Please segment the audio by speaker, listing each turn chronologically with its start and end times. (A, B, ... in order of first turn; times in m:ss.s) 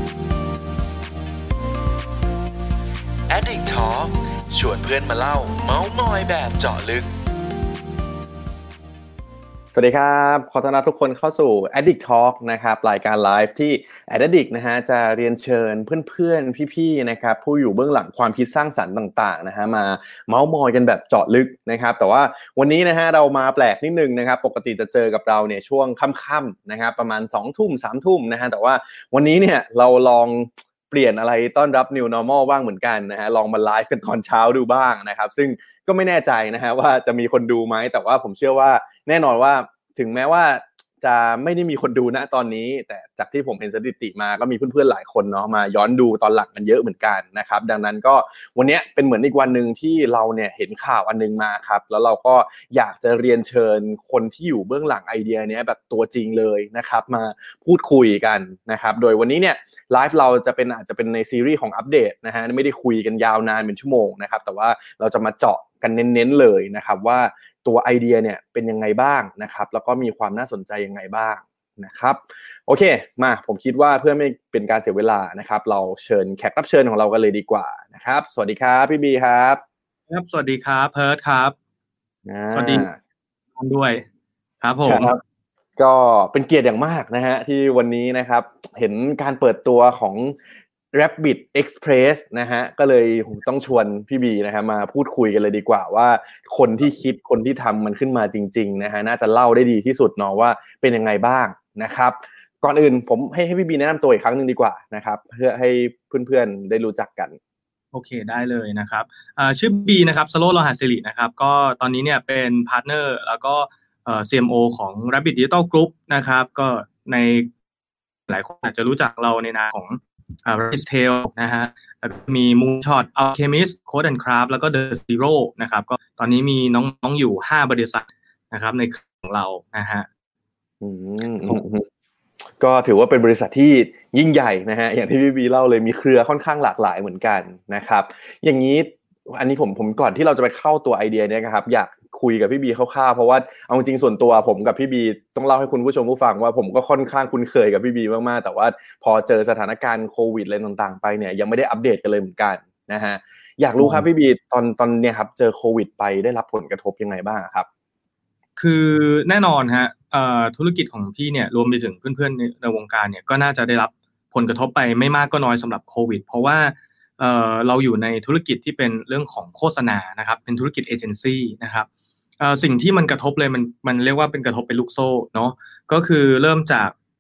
0:03.3-0:07.0 A
0:04.6-0:06.9 B
0:09.7-1:19.6 B
1:20.1-1:21.6 C
1:22.3-1:23.0 B
1:22.5-1:22.9 C
1:23.6-1:24.0 C
1:24.6-1:25.2 C
1:24.9-1:25.2 B
1:25.8-1:30.4 B
1:30.9-1:47.4 B
1:47.9-1:57.5 C
1:58.3-2:10.1 C
2:10.8-2:11.9 B
2:12.6-2:37.7 B
2:33.8-2:34.0 C
2:38.6-2:51.9 C
2:52.4-2:56.9 C